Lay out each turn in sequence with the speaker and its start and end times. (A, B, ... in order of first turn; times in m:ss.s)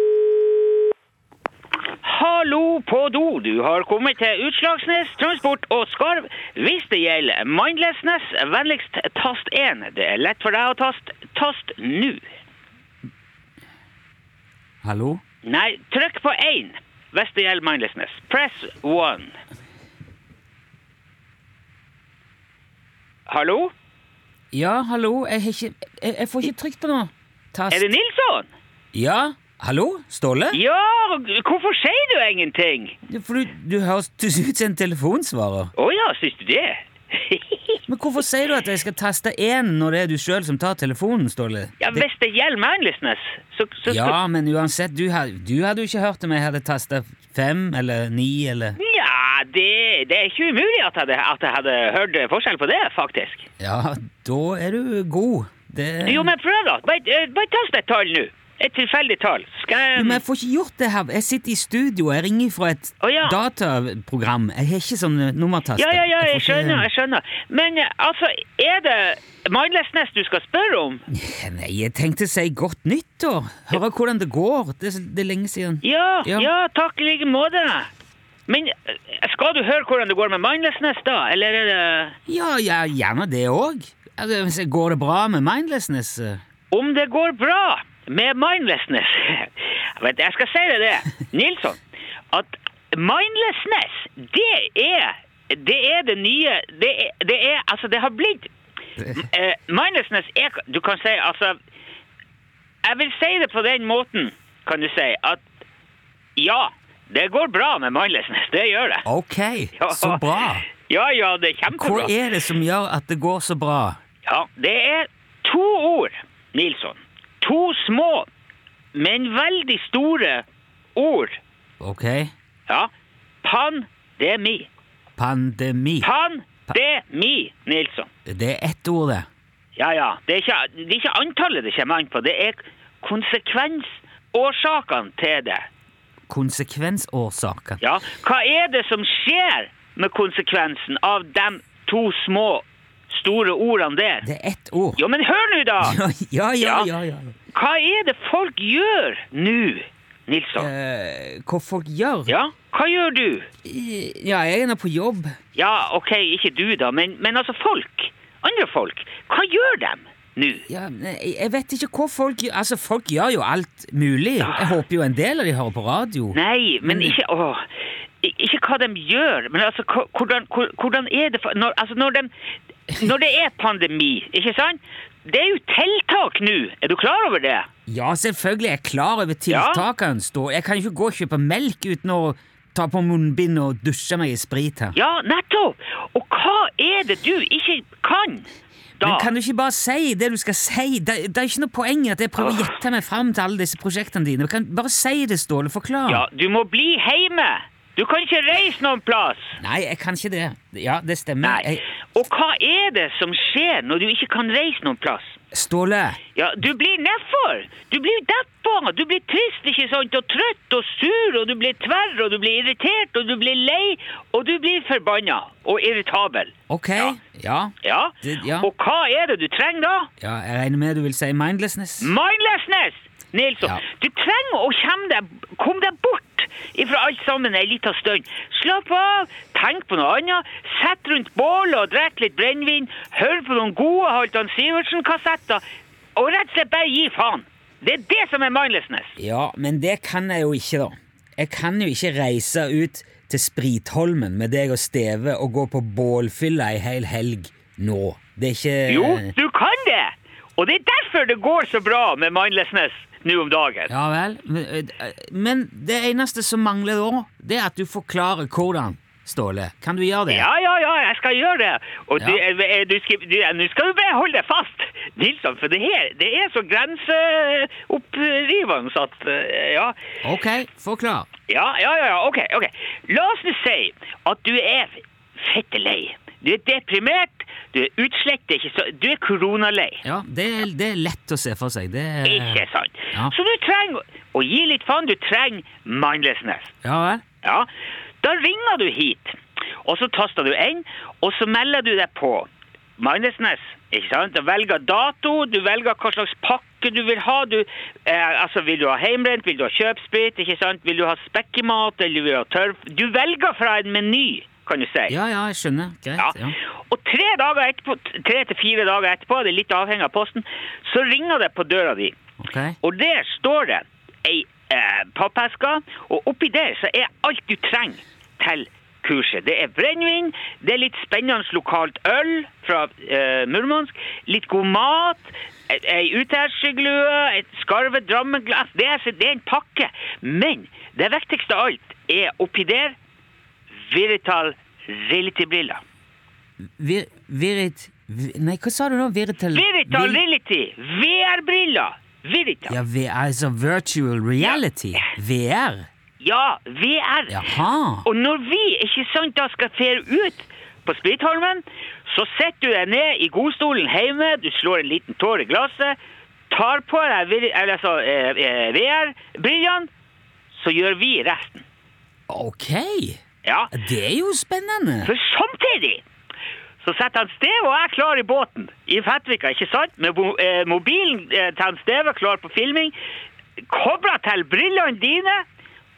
0:02.0-0:12.2 A
0:14.8-0:15.2 B
0:15.4-0:19.4 A
0:23.3-0:23.7 A
0:24.5-0:27.9 B
0:27.7-0:28.5 A
0:28.9-0:30.6 B
0:30.5-0:33.0 A
0:33.1-0:35.7 B
0:35.8-0:37.8 A
0:37.9-0:42.0 B
0:41.8-0:44.2 A
0:43.9-0:48.8 B
0:48.8-0:53.5 A
0:53.6-0:56.3 B
0:56.0-1:00.2 A
0:59.9-1:06.9 B
1:03.0-1:03.4 A
1:05.8-1:11.0 A
1:11.1-1:16.5 B
1:15.8-1:17.9 A
1:18.5-1:22.2 A
1:22.3-1:26.4 B
1:26.7-1:31.8 A
1:32.3-1:38.5 A
1:39.1-1:41.6 A
1:42.8-1:45.4 A
1:46.4-1:49.0 A
1:49.1-1:50.7 B
1:49.8-1:50.2 A
1:50.9-1:52.1 A
1:51.7-1:54.0 B
1:54.3-1:58.3 A
1:58.9-2:00.4 A
2:01.0-2:01.4 A
2:01.8-2:02.3 B
2:03.4-2:04.7 A
2:05.2-2:06.1 B
2:06.0-2:08.1 A
2:08.3-2:09.3 B
2:09.8-2:15.7 A
2:16.3-2:17.8 B
2:17.8-2:24.3 A
2:24.2-2:25.0 B
2:25.0-2:26.0 A
2:25.8-2:27.3 B
2:26.6-2:26.9 A
2:27.5-2:30.7 A
2:30.6-2:32.4 B
2:32.3-2:33.5 A
2:33.6-2:35.4 B
2:35.6-2:40.6 A
2:40.7-2:47.2 B
2:44.4-2:44.8 A
2:46.3-2:47.6 A
2:48.2-2:52.3 A
2:52.9-2:57.7 A
2:57.9-3:05.0 B
2:59.5-2:59.8 A
3:05.0-3:08.5 A
3:09.0-3:09.3 A
3:09.0-3:16.2 B
3:12.4-3:12.7 A
3:16.1-3:19.6 A
3:19.6-3:21.8 B
3:21.4-3:25.4 A
3:25.5-3:26.2 B
3:26.4-3:37.1 A
3:36.7-3:38.7 B
3:37.8-3:40.1 A
3:40.2-3:42.1 B
3:42.0-3:55.6 A
3:56.2-3:59.2 A
3:59.2-4:09.3 B
4:08.9-4:13.9 A
4:13.9-4:20.5 B
4:20.3-4:30.0 A
4:30.2-4:31.3 B
4:31.5-4:40.0 A
4:40.0-4:43.3 B
4:42.3-4:46.7 A
4:46.8-4:47.2 B
4:47.4-4:47.7 A
4:48.2-4:52.5 A
4:53.0-5:05.2 A
5:05.1-5:06.6 B
5:06.9-5:12.2 A
5:12.4-5:12.8 B
5:12.8-5:33.0 A
5:33.9-5:35.8 A
5:36.8-5:40.2 B
5:39.5-5:42.8 A
5:42.7-5:45.9 B
5:46.2-5:47.4 A
5:47.3-5:48.1 B
5:48.0-5:56.0 A
5:56.5-5:59.9 A
6:00.5-6:01.6 A
6:02.3-6:03.2 B
6:03.4-6:03.7 A
6:03.7-6:05.1 B
6:05.0-6:06.0 A
6:06.8-6:13.0 A
6:13.7-6:15.4 A